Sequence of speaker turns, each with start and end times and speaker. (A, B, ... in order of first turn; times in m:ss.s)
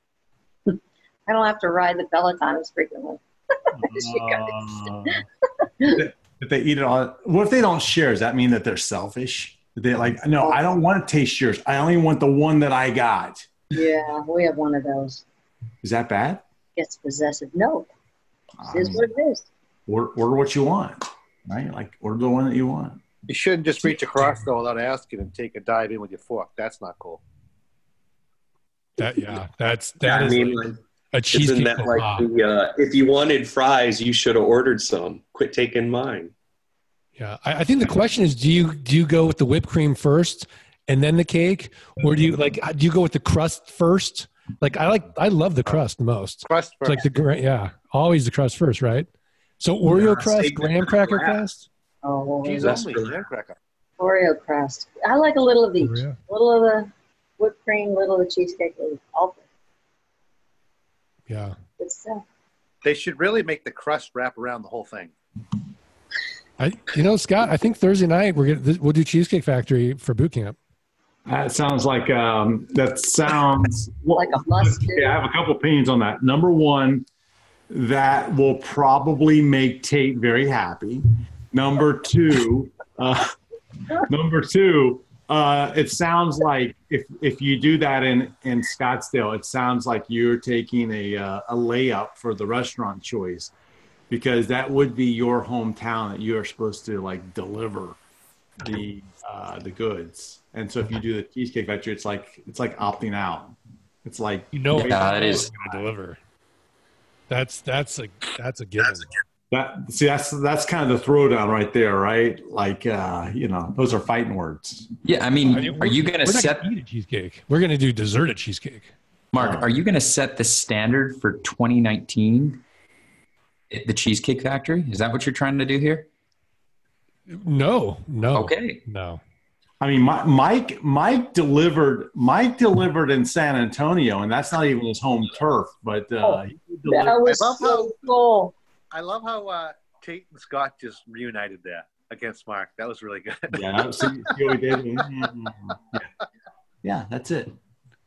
0:00.7-0:06.0 A
0:03.8-0:05.2 B
0:05.8-0:13.5 B
0:13.7-0:15.2 A
0:15.8-0:16.4 B
0:16.8-0:17.9 A
0:18.6-0:19.0 B
0:18.7-0:19.5 A
0:19.9-0:23.0 B
0:23.3-0:27.2 C
0:29.0-0:32.2 D
0:30.0-0:30.8 E
0:31.3-0:36.3 E
0:37.2-0:49.1 D
0:46.4-0:47.1 C
0:49.6-0:51.7 D
0:50.1-0:50.6 E
0:50.8-0:51.2 C
0:52.0-0:52.9 A
0:52.4-0:53.6 C
0:52.6-0:53.2 E
0:54.0-0:59.4 A
0:55.8-0:56.2 D
1:01.3-1:01.5 D
1:01.8-1:02.2 A
1:02.8-1:05.1 C
1:06.6-1:10.6 D
1:11.2-1:17.0 B
1:14.1-1:15.2 A
1:17.7-1:23.3 B
1:24.0-1:33.5 B
1:34.1-1:38.0 B
1:38.6-1:45.7 B
1:44.5-1:46.2 D
1:44.8-1:45.5 F
1:47.3-1:49.1 D
1:49.5-1:54.9 B
1:55.0-1:56.6 F
1:55.4-1:58.9 D
1:59.3-2:02.6 F
1:59.4-1:59.6 B
2:03.7-2:06.1 F
2:07.3-2:09.2 D
2:08.3-2:08.8 F
2:09.8-2:17.2 B
2:16.2-2:18.5 A
2:17.2-2:18.0 C
2:18.9-2:24.3 C
2:23.5-2:26.1 B
2:26.8-2:27.5 B